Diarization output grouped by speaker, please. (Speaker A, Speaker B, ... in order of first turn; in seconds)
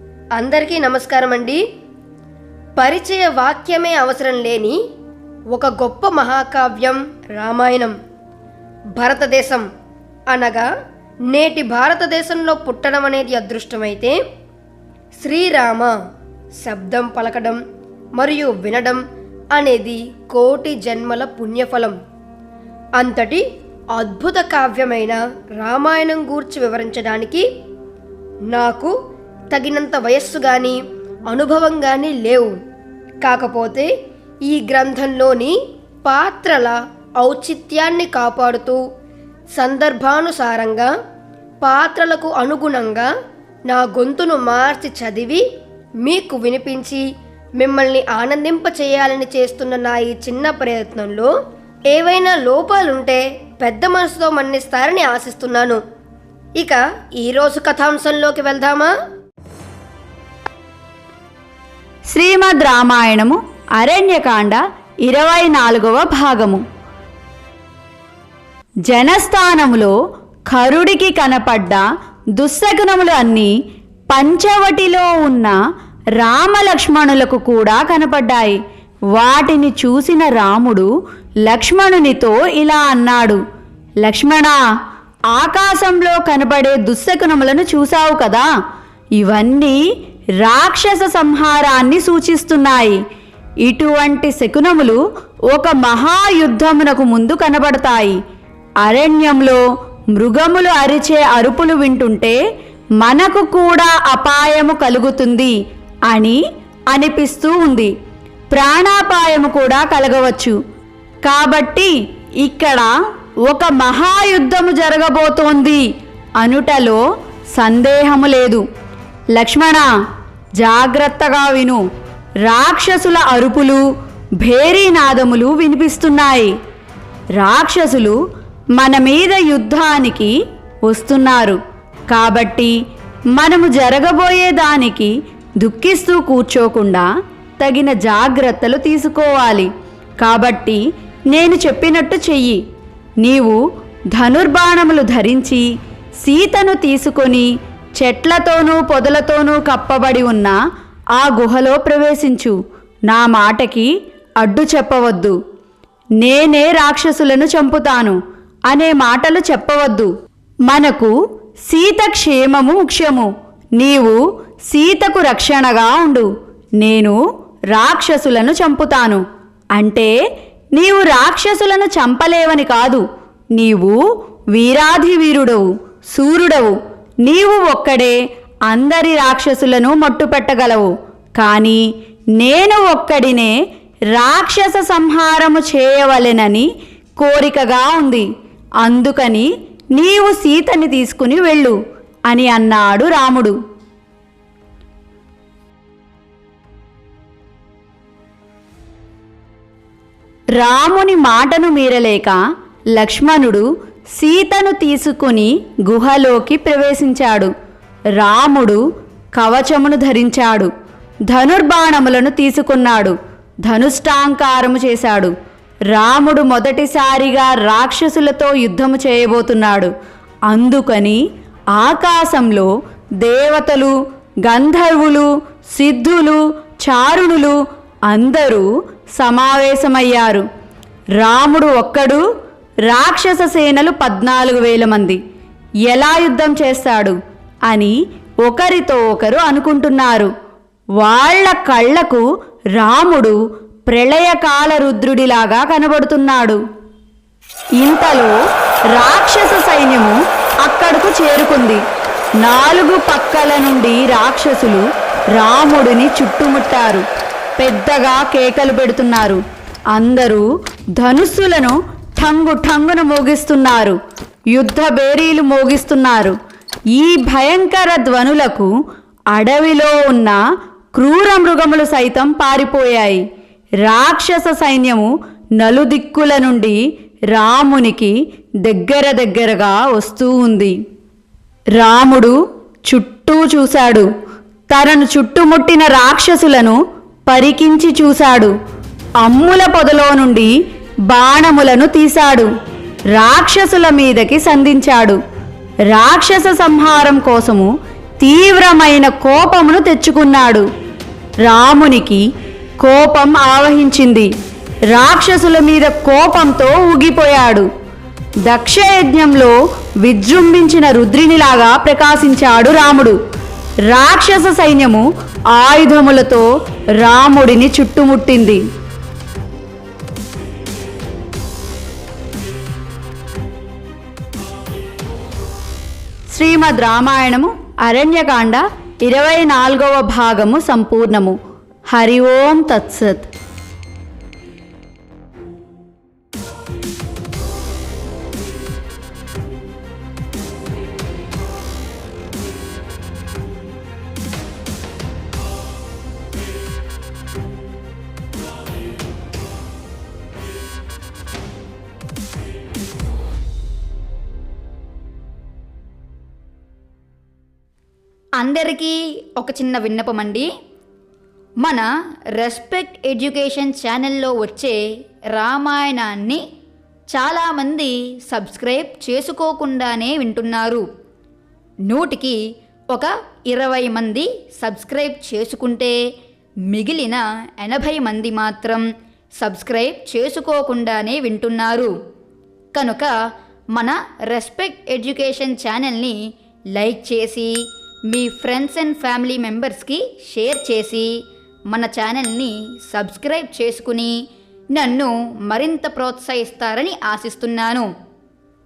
Speaker A: 0.4-1.6, 2.8-4.8, 5.5-7.9, 9.0-9.7, 10.3-10.7, 11.3-14.2, 15.2-15.9, 16.6-17.6, 18.2-19.0, 19.6-22.0, 23.0-23.4, 23.9-27.4, 28.5-28.9, 29.5-30.8, 31.3-32.5, 33.2-33.9, 34.5-35.5, 36.0-38.8, 39.6-40.9, 41.6-43.1, 43.7-45.4, 46.0-47.0, 47.6-51.3, 51.9-55.8, 56.6-58.9
Speaker B: 62.1-66.6, 68.9-69.9, 70.5-71.8, 72.4-73.5, 74.1-75.5, 76.2-78.6, 79.1-80.9, 81.5-83.4, 84.0-84.6, 85.3-88.5, 89.2-89.8, 90.4-93.0, 93.6-95.0, 95.5-98.2, 98.8-99.6, 100.1-102.4, 103.0-105.5, 106.1-107.9, 108.5-110.5, 111.3-112.9, 113.5-115.8, 116.4-117.0, 117.5-118.6, 119.3-119.9, 120.6-121.8, 122.5-123.8, 124.4-126.5, 127.4-128.2, 128.8-130.3, 130.9-132.7, 133.3-137.1, 137.6-139.7, 140.2-140.8, 141.3-142.6, 143.2-143.6, 144.1-145.6, 146.2-147.5, 148.0-150.6, 151.2-152.6, 153.1-153.9, 154.4-155.3, 156.2-158.2, 158.7-160.1, 160.7-161.1, 161.7-164.2, 164.7-166.3, 166.8-167.2, 167.7-169.2, 169.8-170.1, 170.8-173.0, 173.6-174.0, 174.5-178.2, 178.7-181.8, 182.4-183.5, 184.1-186.7, 187.2-188.3, 188.8-191.8, 192.3-193.6, 200.6-202.4, 202.9-207.5, 208.2-208.8, 209.3-210.7, 211.3-213.1, 213.7-215.3, 215.9-219.9, 220.5-221.2, 221.8-223.9, 224.4-227.6, 228.1-228.7, 229.2-230.4, 231.2-232.2, 232.9-235.2, 235.9-237.2, 237.7-240.3, 241.0-242.2, 242.8-243.4, 243.9-246.6, 247.8-248.3, 248.9-251.8, 252.4-254.8, 255.3-257.0, 257.6-259.4, 259.9-260.4, 261.0-264.0, 264.5-266.4, 266.9-268.7, 269.3-270.4, 270.9-273.2, 273.8-276.8, 277.3-278.1, 278.6-280.7, 281.8-282.4, 282.9-284.1, 284.7-288.5, 289.2-290.5, 291.1-292.5, 293.1-295.2, 295.9-297.7, 298.2-300.7, 301.4-302.2, 302.8-304.3, 304.9-307.7, 308.5-313.2, 313.9-316.5, 317.0-318.6, 326.3-331.4, 331.9-333.3, 358.6-358.9, 359.4-360.4, 362.6-364.8, 365.6-366.3, 367.4-370.8, 373.7-375.9, 376.7-378.8, 379.4-381.9, 382.8-383.1, 383.8-386.1, 386.8-387.5, 388.1-391.1, 391.8-394.1, 394.8-397.8
Speaker C: 358.4-360.4, 362.4-364.8, 365.3-366.4, 367.1-370.8, 371.9-372.4, 372.9-375.9, 376.7-378.2, 379.4-381.9, 382.8-383.1, 383.8-384.8, 385.4-386.1, 386.8-387.5, 390.8-391.1, 391.7-392.5, 393.4-394.1, 394.8-396.5, 397.2-397.8